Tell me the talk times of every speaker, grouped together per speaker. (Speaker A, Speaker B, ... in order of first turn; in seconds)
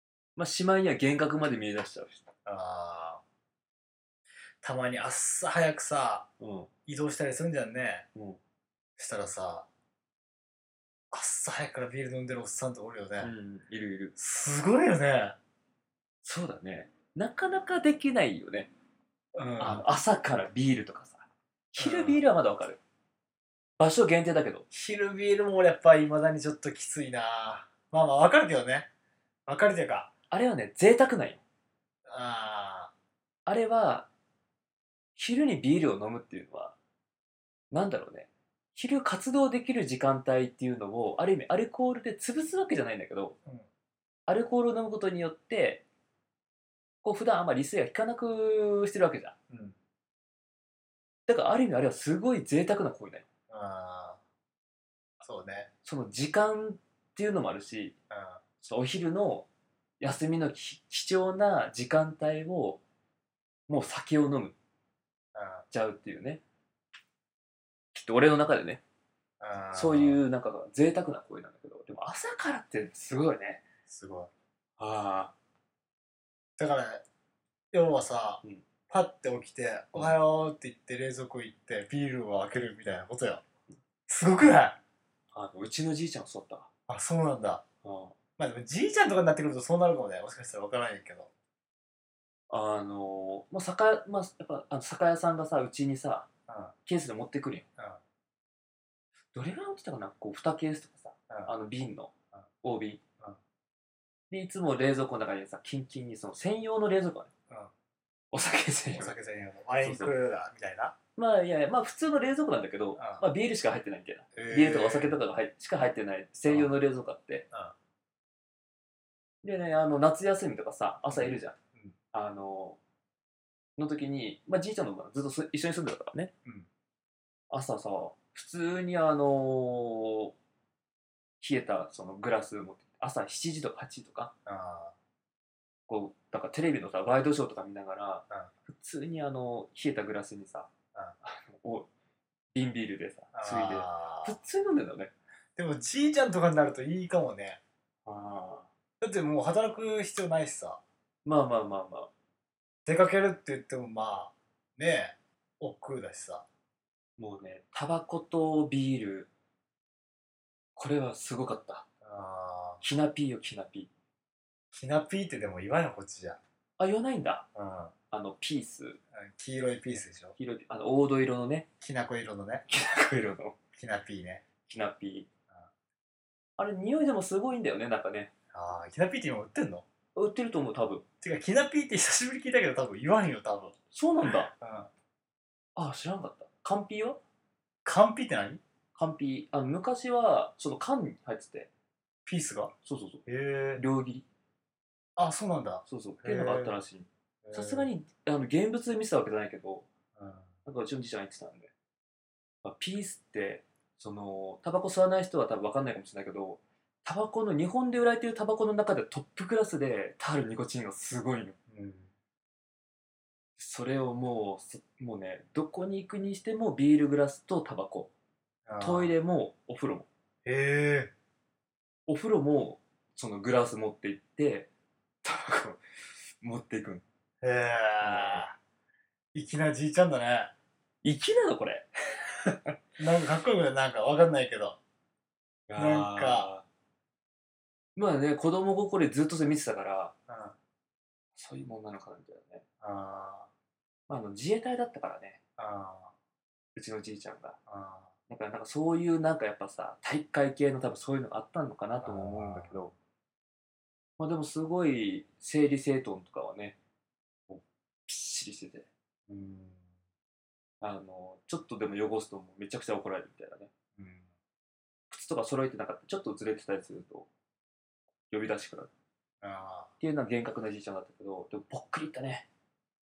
Speaker A: 0.4-2.3, 6.4-6.7, 13.2-14.2, 16.2-18.7, 19.6-22.8, 23.8-24.6, 30.3-31.4, 33.5-34.1, 35.2-36.8, 37.7-43.4, 44.3-45.8, 47.0-49.4, 51.3-53.3, 55.8-58.0, 58.6-59.5, 60.0-62.8, 63.7-64.6, 65.7-66.4, 67.9-68.8, 69.7-73.6, 74.8-75.3, 85.3-86.7, 87.8-88.2, 92.5-96.3, 96.8-97.7, 99.3-102.1, 102.6-103.0, 104.3-107.3, 108.3-109.1, 109.8-110.1, 111.2-117.5, 119.4-121.5, 122.1-122.8, 123.8-126.3, 127.5-130.3, 131.4-134.3, 135.9-140.7, 141.2-141.9, 142.5-145.1, 148.1-148.7, 151.2-152.1, 157.2-159.3, 160.8-161.9, 162.8-163.9, 166.8-167.5, 168.1-169.0, 170.4-171.7, 172.7-173.6, 174.7-175.3, 176.6-178.3, 180.2-181.1, 183.9-184.5, 185.8-187.2, 188.9-191.7, 192.8-194.3, 195.9-199.9, 200.7-201.7, 202.6-211.6, 213.6-218.1, 218.8-220.1, 222.1-224.7, 225.2-225.8, 226.4-227.0, 228.0-228.5, 231.0-232.8, 235.7-236.6, 238.0-240.1, 241.4-242.6, 244.1-245.4, 246.8-247.6, 248.3-252.9, 254.2-256.8, 257.5-258.9, 260.8-263.7, 265.1-267.3, 268.3-268.9, 270.0-272.5
Speaker B: 2.5-3.2, 4.6-6.3, 6.9-8.1, 9.0-9.7, 11.1-13.3, 14.2-15.4, 19.4-19.8, 21.8-22.2, 24.7-28.9, 29.5-30.1, 32.1-32.9, 53.5-54.2, 55.2-55.7, 58.1-58.4, 65.3-65.7, 69.4-70.2, 73.9-74.3, 76.6-77.0, 77.7-83.4, 84.1-84.8, 86.9-87.6, 88.4-91.3, 96.5-96.7, 108.9-111.0, 113.0-113.3, 114.3-115.2, 116.5-116.8, 121.1-122.0, 134.5-134.9, 143.3-144.4, 145.6-147.6, 149.0-150.8, 152.9-156.4, 162.0-162.8, 164.7-166.4, 167.6-167.9, 169.1-170.3, 171.8-172.6, 173.8-174.4, 178.5-179.8, 181.2-183.8, 184.5-184.9, 187.8-188.6, 192.2-192.7, 193.3-193.8, 195.2-196.8, 197.4-197.9, 200.2-200.5, 211.7-212.1, 218.7-219.2, 220.4-221.1, 227.4-228.6, 229.3-230.5, 233.0-234.8, 235.8-236.5, 240.3-240.6, 242.8-243.5, 245.6-246.1, 247.7-248.1, 252.0-252.8, 259.3-259.8, 264.0-264.3, 269.4-269.9